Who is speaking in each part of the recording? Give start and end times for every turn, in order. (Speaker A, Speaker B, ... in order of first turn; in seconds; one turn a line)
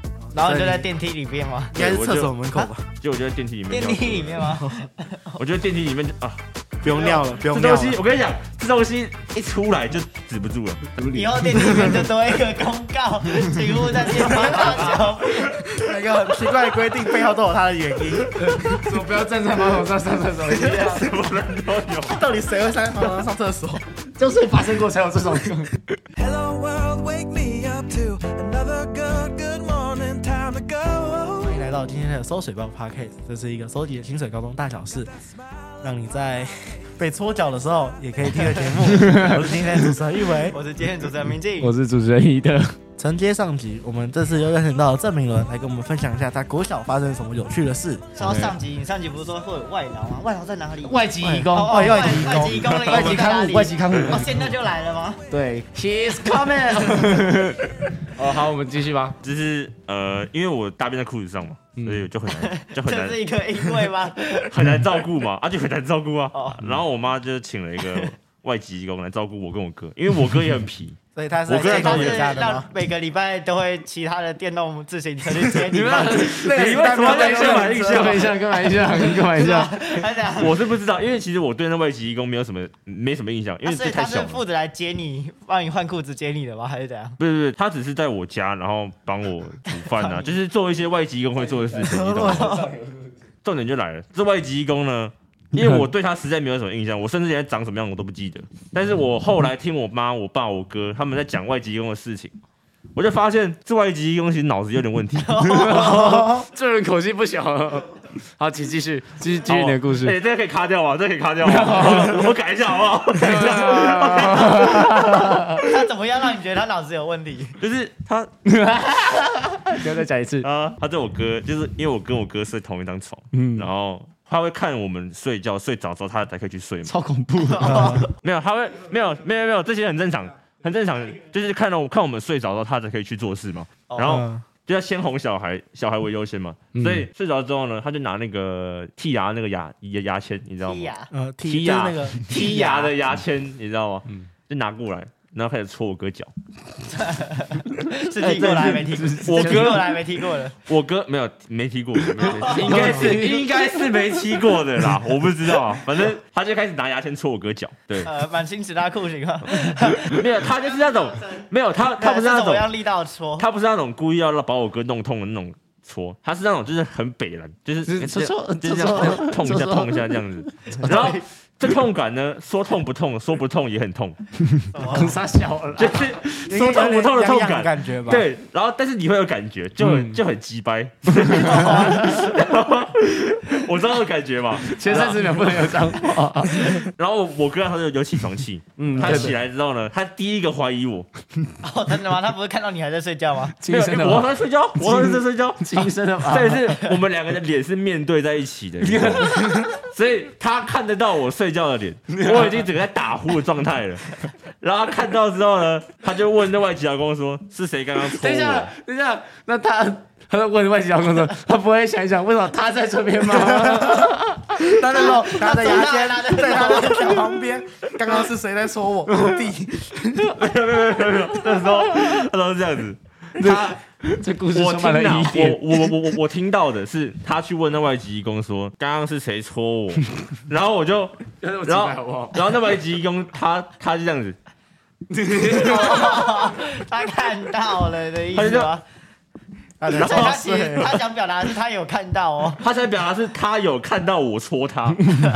Speaker A: 0.2-0.8
Speaker B: 0.3-1.8
Speaker A: 1.7-2.9
Speaker C: 1.7-2.4
Speaker C: 3.0-4.6
Speaker B: 3.7-5.4
Speaker C: 5.4-6.4
Speaker A: 6.8-8.0
Speaker C: 7.1-10.9
Speaker D: 10.9-12.1
Speaker B: 11.1-15.7
Speaker A: 14.3-14.7
Speaker C: 14.6-14.9
Speaker A: 15.5-18.8
Speaker D: 18.3-21.1
Speaker C: 20.5-22.2
Speaker A: 22.1-23.9
Speaker D: 24.1-26.0
Speaker E: 26.1-31.4
Speaker A: 31.3-35.1
Speaker A: 35.8-40.5
Speaker D: 38.8-39.6
Speaker B: 40.5-41.7
Speaker D: 41.6-42.8
Speaker A: 43.0-48.2
Speaker B: 48.1-55.2
Speaker D: 48.2-48.5
Speaker D: 50.8-54.3
Speaker A: 51.2-53.7
Speaker D: 55.3-59.2
Speaker C: 59.2-63.2
Speaker D: 61.8-62.0
Speaker B: 62.3-64.5
Speaker C: 64.4-72.4
Speaker B: 66.3-66.6
Speaker A: 71.1-72.7
Speaker B: 71.6-76.4
Speaker D: 75.5-79.8
Speaker A: 76.3-78.2
Speaker C: 76.3-78.4
Speaker B: 78.9-80.6
Speaker C: 80.3-84.4
Speaker B: 83.6-87.2
Speaker C: 87.2-92.6
Speaker B: 89.7-90.4
Speaker B: 92.1-92.7
Speaker D: 92.4-93.0
Speaker C: 93.4-102.4
Speaker C: 102.9-105.9
Speaker B: 105.2-106.3
Speaker D: 105.4-110.1
Speaker C: 109.4-115.6
Speaker D: 111.4-112.3
Speaker D: 113.2-115.5
Speaker B: 115.3-117.5
Speaker C: 117.6-118.3
Speaker D: 118.4-120.5
Speaker C: 120.4-126.9
Speaker D: 123.3-123.7
Speaker D: 126.8-128.1
Speaker B: 127.5-128.0
Speaker A: 127.6-128.1
Speaker C: 128.0-140.9
Speaker B: 133.9-134.2
Speaker A: 134.0-134.4
Speaker D: 136.7-137.1
Speaker B: 140.6-141.1
Speaker A: 141.1-142.3
Speaker C: 141.4-146.3
Speaker B: 142.3-142.9
Speaker B: 146.9-150.6
Speaker C: 148.2-149.9
Speaker D: 148.9-149.8
Speaker C: 150.6-158.1
Speaker D: 152.3-153.4
Speaker B: 152.4-153.1
Speaker B: 158.0-160.2
Speaker C: 160.0-162.7
Speaker B: 162.0-163.4
Speaker C: 163.4-174.2
Speaker D: 167.8-170.2
Speaker B: 170.8-171.2
Speaker B: 174.7-175.2
Speaker D: 174.8-176.1
Speaker C: 175.8-185.7
Speaker A: 176.5-178.3
Speaker D: 179.8-180.2
Speaker B: 181.3-182.4
Speaker D: 184.6-186.9
Speaker B: 184.8-185.3
Speaker C: 186.5-191.1
Speaker D: 188.8-189.3
Speaker B: 191.6-193.6
Speaker D: 193.6-196.8
Speaker C: 193.7-208.7
Speaker D: 198.8-199.8
Speaker D: 202.1-202.6
Speaker D: 208.0-215.1
Speaker A: 213.3-214.1
Speaker A: 214.6-220.3
Speaker B: 215.1-217.4
Speaker D: 219.1-219.4
Speaker C: 220.3-223.8
Speaker D: 223.4-226.0
Speaker C: 224.5-234.4
Speaker D: 231.4-232.5
Speaker D: 235.1-236.4
Speaker B: 235.5-238.8
Speaker C: 238.3-238.7
Speaker A: 239.8-240.9
Speaker C: 239.9-240.5
Speaker B: 240.0-242.6
Speaker C: 242.6-245.1